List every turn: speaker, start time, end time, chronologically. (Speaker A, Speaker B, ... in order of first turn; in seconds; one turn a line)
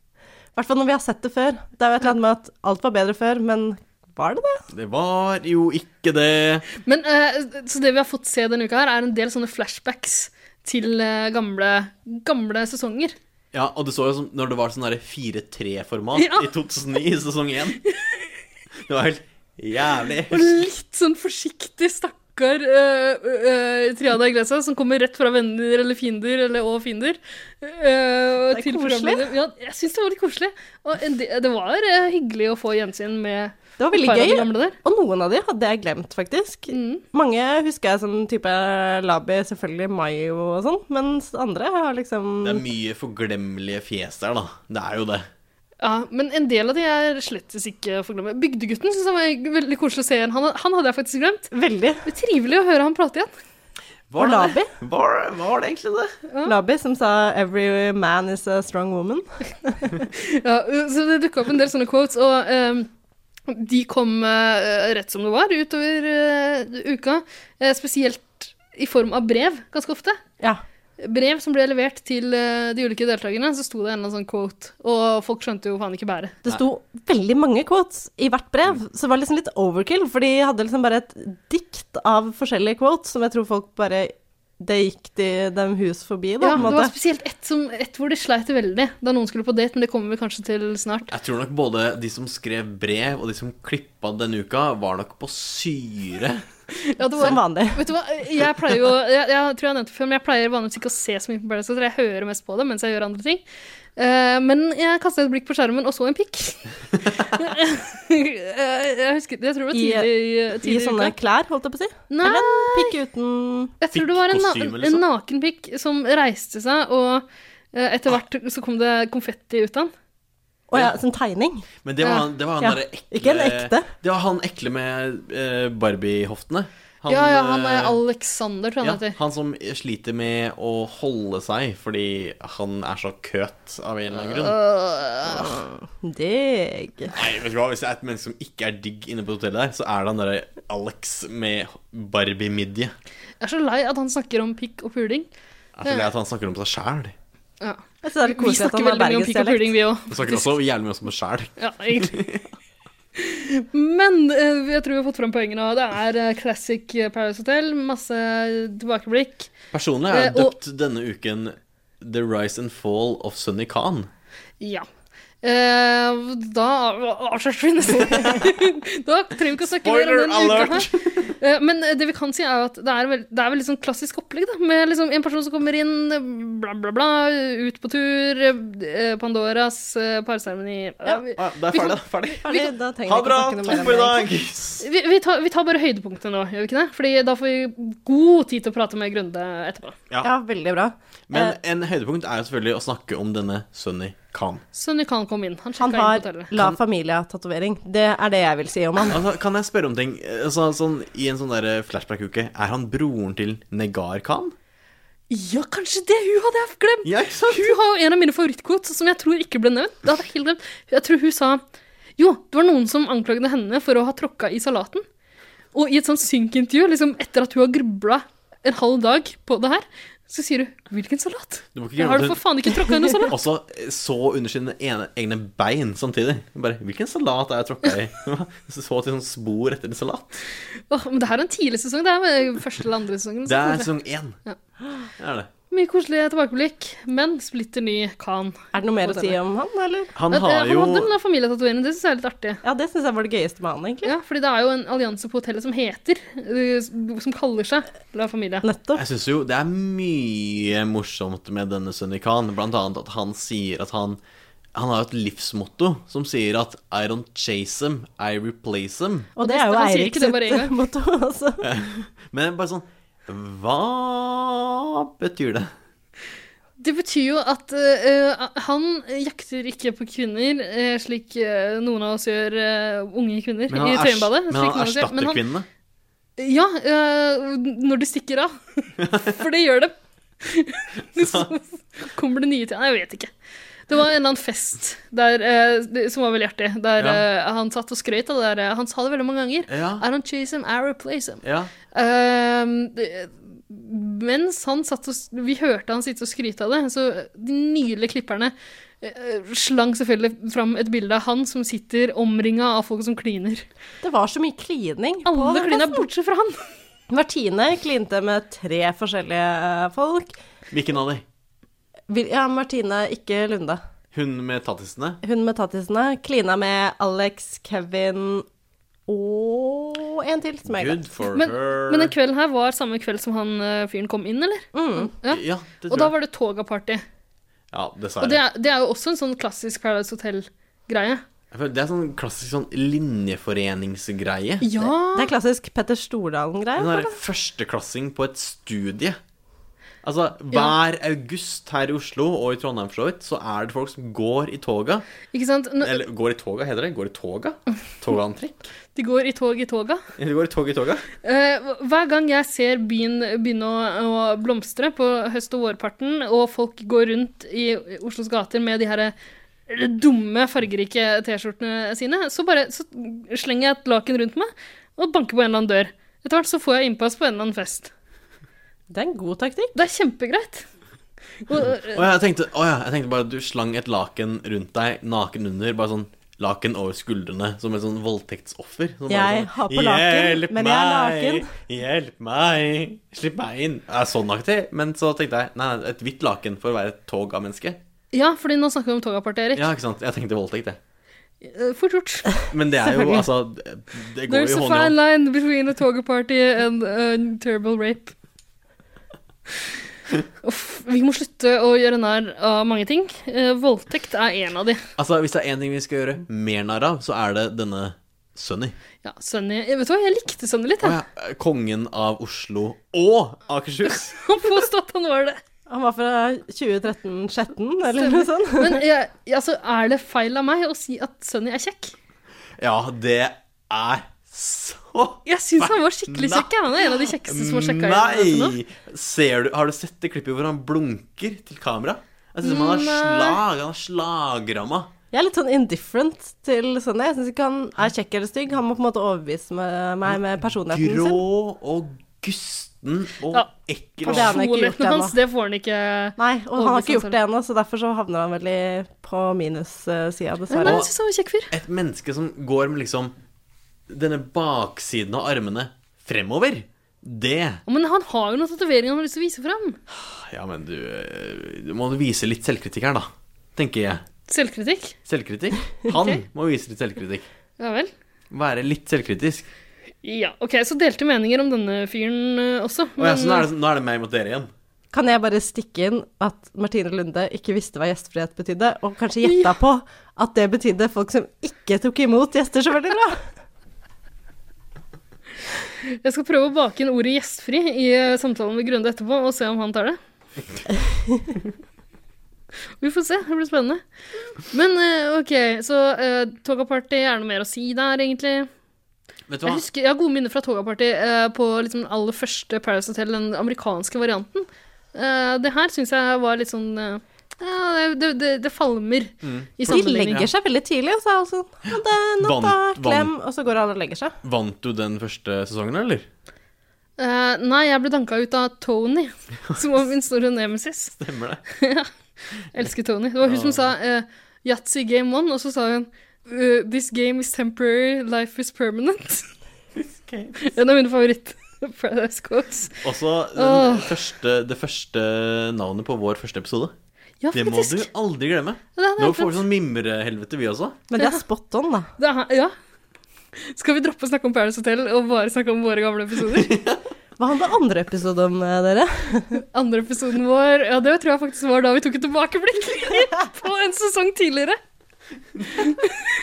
Speaker A: 0.6-4.6
Speaker B: 4.7-6.7
Speaker C: 6.8-13.1
Speaker B: 13.5-17.8
Speaker C: 16.1-16.5
Speaker C: 17.9-18.2
Speaker B: 18.8-20.6
Speaker C: 20.3-34.8
Speaker A: 28.5-29.3
Speaker A: 33.8-42.6
Speaker C: 36.7-37.0
Speaker B: 42.4-45.2
Speaker C: 45.8-51.5
Speaker A: 51.5-52.0
Speaker C: 52.0-53.3
Speaker B: 54.1-56.1
Speaker A: 54.2-54.7
Speaker C: 56.3-56.5
Speaker A: 56.5-59.9
Speaker C: 60.1-62.9
Speaker C: 63.5-70.2
Speaker C: 71.0-76.4
Speaker A: 76.4-86.9
Speaker C: 86.4-91.1
Speaker B: 91.1-96.4
Speaker C: 97.0-103.4
Speaker A: 97.2-97.8
Speaker C: 104.0-106.6
Speaker C: 107.3-111.1
Speaker A: 109.7-113.7
Speaker C: 112.1-112.9
Speaker C: 113.8-119.9
Speaker B: 113.9-115.0
Speaker A: 120.7-121.7
Speaker B: 121.8-128.0
Speaker C: 122.0-122.3
Speaker A: 122.6-123.9
Speaker C: 127.1-129.2
Speaker B: 128.8-134.6
Speaker C: 134.3-135.6
Speaker A: 135.3-137.1
Speaker B: 137.1-142.9
Speaker C: 143.4-145.3
Speaker B: 145.8-147.1
Speaker C: 147.6-150.5
Speaker A: 148.0-149.7
Speaker B: 150.1-152.5
Speaker C: 151.6-152.2
Speaker C: 153.2-159.5
Speaker B: 159.7-164.1
Speaker C: 160.1-160.5
Speaker C: 164.6-164.8
Speaker C: 165.4-182.7
Speaker B: 169.6-171.3
Speaker B: 181.3-182.4
Speaker A: 182.4-184.2
Speaker B: 183.0-184.9
Speaker C: 184.8-190.0
Speaker A: 190.2-191.5
Speaker B: 191.3-194.6
Speaker C: 194.7-196.5
Speaker A: 195.8-199.2
Speaker B: 199.1-204.5
Speaker C: 205.3-211.6
Speaker B: 207.0-207.7
Speaker C: 212.2-215.0
Speaker C: 215.7-223.3
Speaker B: 221.7-222.4
Speaker B: 223.2-230.4
Speaker C: 230.9-233.9
Speaker B: 233.4-234.4
Speaker B: 235.2-235.5
Speaker C: 235.7-239.4
Speaker A: 238.7-240.1
Speaker B: 240.1-241.1
Speaker C: 240.3-242.6
Speaker A: 242.6-244.1
Speaker C: 244.0-248.6
Speaker A: 248.6-249.0
Speaker B: 248.9-254.2
Speaker B: 254.7-259.3
Speaker A: 259.4-261.7
Speaker C: 259.4-260.8
Speaker B: 261.6-265.7
Speaker C: 266.8-275.4
Speaker B: 273.7-275.7
Speaker C: 276.4-283.3
Speaker B: 279.0-279.3
Speaker B: 281.1-281.5
Speaker C: 283.9-291.4
Speaker B: 287.0-287.2
Speaker B: 289.7-290.0
Speaker B: 291.4-291.7
Speaker C: 291.9-303.6
Speaker A: 304.0-306.1
Speaker C: 305.2-306.6
Speaker A: 307.1-310.3
Speaker B: 310.7-311.2
Speaker A: 312.1-313.8
Speaker B: 314.1-315.2
Speaker A: 315.2-318.4
Speaker A: 319.1-321.1
Speaker B: 320.6-322.1
Speaker C: 321.3-327.0
Speaker A: 324.7-325.1
Speaker B: 325.3-326.1
Speaker B: 327.7-328.4
Speaker C: 328.2-331.2
Speaker B: 331.5-334.7
Speaker C: 334.6-335.3
Speaker A: 334.8-337.1
Speaker B: 336.8-339.2
Speaker B: 340.0-345.1
Speaker C: 345.3-346.0
Speaker B: 345.8-348.7
Speaker C: 348.9-350.0
Speaker B: 350.2-351.1
Speaker C: 351.2-359.1
Speaker C: 359.7-367.9
Speaker A: 368.9-369.7
Speaker C: 369.7-370.6
Speaker C: 371.4-372.0
Speaker B: 371.9-387.8
Speaker A: 379.1-381.5
Speaker C: 388.1-389.7
Speaker B: 389.5-390.8
Speaker C: 391.4-392.3
Speaker B: 392.5-394.9
Speaker C: 394.3-398.1
Speaker C: 400.4-404.8
Speaker B: 405.0-408.7
Speaker C: 409.0-411.0
Speaker B: 410.8-414.1
Speaker C: 414.1-415.4
Speaker A: 415.7-418.8
Speaker C: 417.9-421.9
Speaker B: 422.6-434.9
Speaker C: 425.2-428.6
Speaker C: 432.4-433.4
Speaker A: 435.1-441.2
Speaker B: 440.1-444.4
Speaker C: 444.0-447.1
Speaker A: 444.1-445.1
Speaker A: 446.2-450.8
Speaker C: 450.5-451.5
Speaker B: 450.6-450.9
Speaker B: 451.5-453.1
Speaker B: 453.9-457.6
Speaker C: 457.7-459.8
Speaker B: 459.9-464.0
Speaker C: 464.3-464.9
Speaker B: 465.1-467.2
Speaker C: 465.9-466.2
Speaker C: 467.6-467.9
Speaker B: 468.3-469.5
Speaker C: 470.0-473.5
Speaker B: 473.0-474.5
Speaker A: 474.9-483.2
Speaker C: 485.8-490.0
Speaker C: 492.8-493.8
Speaker C: 494.3-498.5
Speaker B: 499.3-499.6
Speaker C: 499.4-510.2
Speaker B: 509.2-510.3
Speaker A: 509.6-514.1
Speaker B: 512.2-513.1
Speaker B: 514.2-516.1
Speaker C: 517.0-520.9
Speaker B: 521.0-521.4
Speaker C: 521.5-521.9
Speaker C: 522.5-529.3
Speaker B: 523.2-523.6
Speaker B: 529.7-530.4
Speaker C: 530.4-532.8
Speaker B: 532.8-536.7
Speaker C: 533.4-534.0
Speaker C: 537.2-537.9
Speaker B: 537.3-540.8
Speaker C: 538.8-539.4
Speaker A: 540.9-541.9
Speaker C: 542.0-542.5
Speaker C: 543.4-546.5
Speaker B: 546.3-546.8
Speaker A: 547.2-549.4
Speaker C: 549.5-554.6
Speaker C: 555.6-556.0